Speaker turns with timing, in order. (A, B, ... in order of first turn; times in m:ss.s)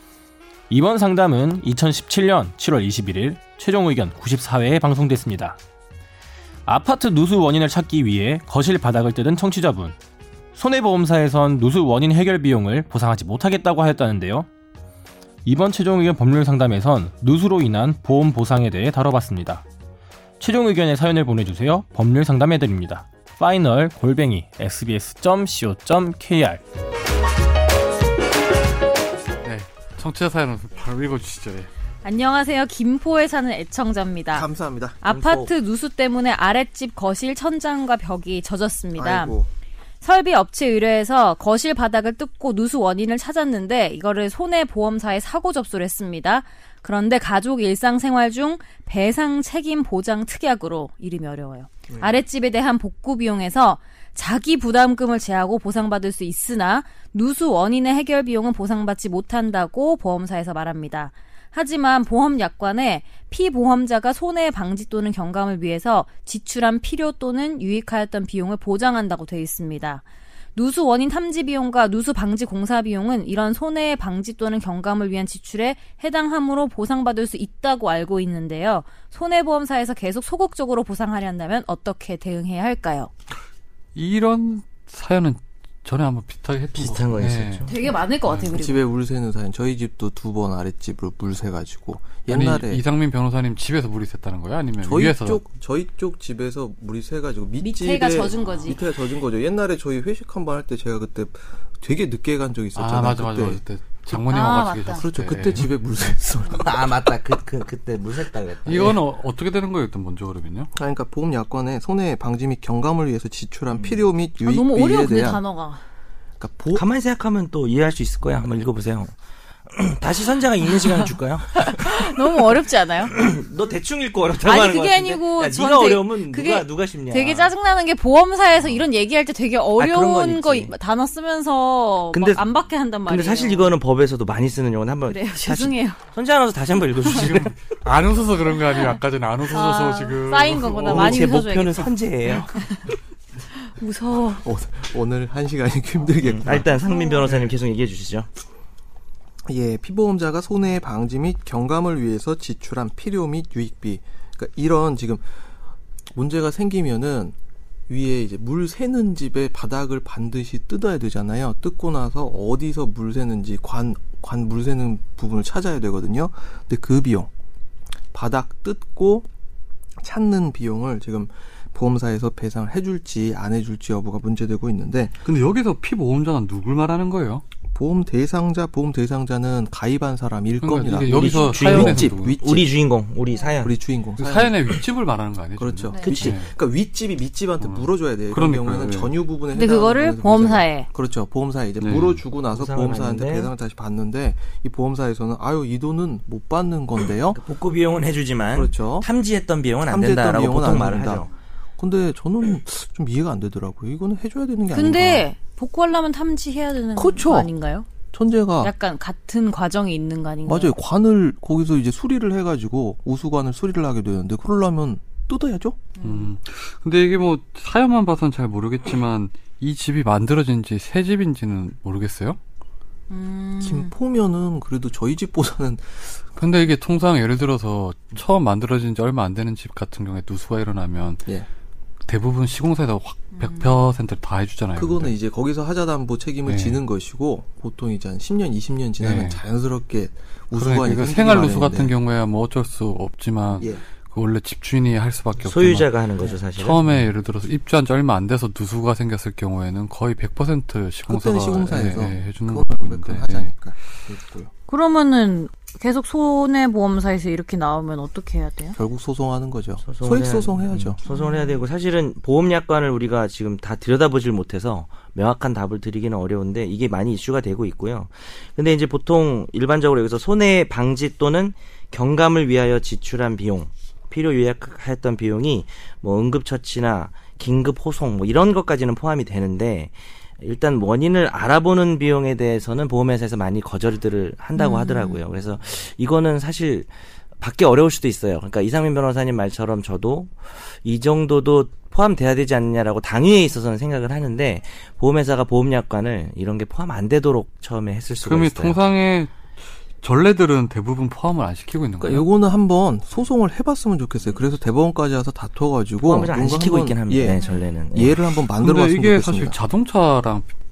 0:00.7-0:05.6 A
0:06.7-0:10.0 A
0:10.5-0:14.5 A
0:15.4-0:19.6 A
0:20.4-0:26.6 A
0:29.4-0:31.7 B
0:32.0-0:34.5 C
0:34.3-0:35.0 D
0:35.0-0:39.4 C
0:35.0-0:35.5 E
0:39.0-0:39.5 D
0:40.0-1:10.0 C
1:10.5-1:23.1 C
1:23.9-1:27.7 B
1:26.7-1:27.8 E
1:27.7-1:28.8 C
1:28.2-1:28.5 B
1:28.5-1:32.8 D
1:32.3-1:35.4 B
1:34.8-1:43.6 D
1:37.6-1:38.8 C
1:42.7-1:45.7 B
1:44.2-1:45.0 C
1:44.9-1:46.8 D
1:46.6-1:49.0 E
1:48.6-1:50.7 B
1:50.8-1:55.4 D
1:53.7-1:54.1 E
1:54.4-1:55.8 C
1:56.4-1:56.8 D
1:56.7-1:59.1 E
1:59.7-2:02.2 E
2:00.8-2:03.1 C
2:03.0-2:07.5 E
2:04.4-2:13.7 C
2:09.8-2:10.7 E
2:12.1-2:12.4 E
2:13.1-2:17.5 E
2:15.1-2:16.0 C
2:17.0-2:21.3 B
2:19.5-2:22.9 C
2:20.9-2:22.5 E
2:23.5-2:24.4 C
2:24.4-2:26.7 D
2:26.2-2:28.3 E
2:26.8-2:27.2 C
2:29.5-2:35.2 D
2:36.1-2:37.3 D
2:37.9-2:47.3 D
2:48.1-2:49.3 D
2:50.0-2:55.2 D
2:55.2-2:57.4 B
2:57.7-3:02.7 D
3:00.6-3:02.4 B
3:01.1-3:03.8 E
3:03.6-3:04.8 D
3:04.2-3:06.5 B
3:05.6-3:17.4 D
3:06.0-3:06.3 E
3:07.6-3:09.1 B
3:09.5-3:10.9 C
3:11.8-3:12.2 B
3:12.5-3:13.5 E
3:17.3-3:21.3 E
3:18.5-3:19.1 D
3:19.9-3:25.3 D
3:24.7-3:27.8 C
3:26.9-3:27.5 D
3:28.1-3:28.7 D
3:28.6-3:30.7 C
3:30.4-3:35.9 D
3:36.0-3:36.3 C
3:36.0-3:42.4 B
3:43.1-3:43.9 C
3:43.6-3:46.2 D
3:46.4-3:51.2 B
3:52.1-3:55.1 B
3:53.4-3:53.8 C
3:54.8-4:01.9 D
3:56.4-3:56.8 B
3:59.0-3:59.4 B
4:00.5-4:13.5 B
4:03.6-4:03.8 D
4:05.4-4:07.1 E
4:11.1-4:14.5 D
4:14.7-4:18.8 C
4:18.8-4:21.0 D
4:19.8-4:58.8 E
4:21.0-4:21.6 C
4:44.6-4:45.2 C
4:58.2-5:02.2 B
5:02.0-5:09.6 D
5:06.0-5:08.2 E
5:07.3-5:07.6 C
5:08.4-5:10.5 B